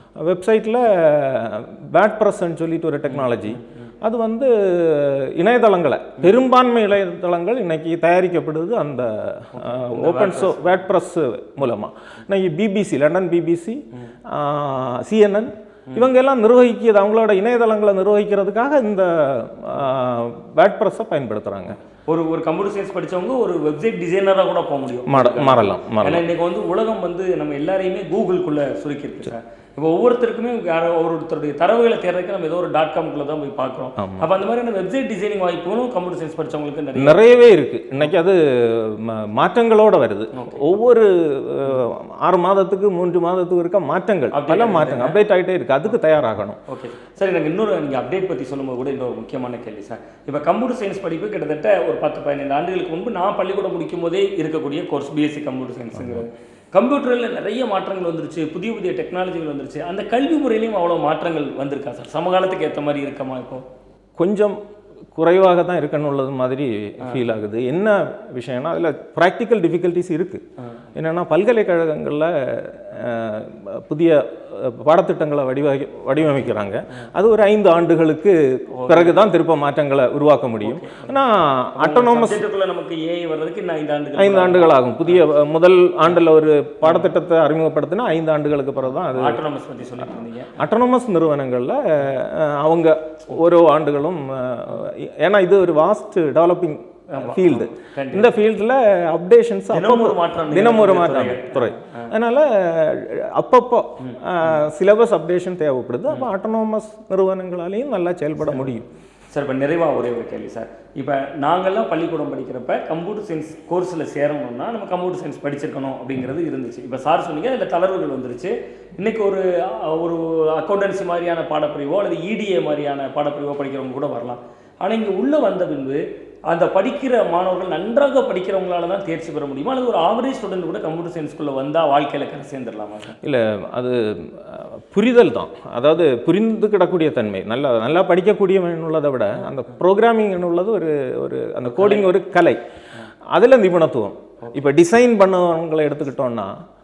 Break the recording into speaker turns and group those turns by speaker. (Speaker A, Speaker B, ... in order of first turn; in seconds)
Speaker A: 0.2-21.8, 25.1-26.2, 34.0-34.3, 37.0-46.6, 56.0-56.2, 64.2-64.6, 65.2-70.4, 71.0-82.5, 84.2-89.4, 90.6-108.9, 133.2-142.6, 143.3-146.5
Speaker B: 3.1-3.9, 9.5-10.7, 22.1-37.5, 40.3-40.8, 44.3-45.2, 46.7-63.6, 78.7-79.2, 80.6-81.2, 81.8-85.2, 86.8-87.1, 89.0-90.6, 97.1-98.3, 99.7-102.1, 104.0-104.6, 108.4-108.7, 109.3-133.2, 141.7-142.1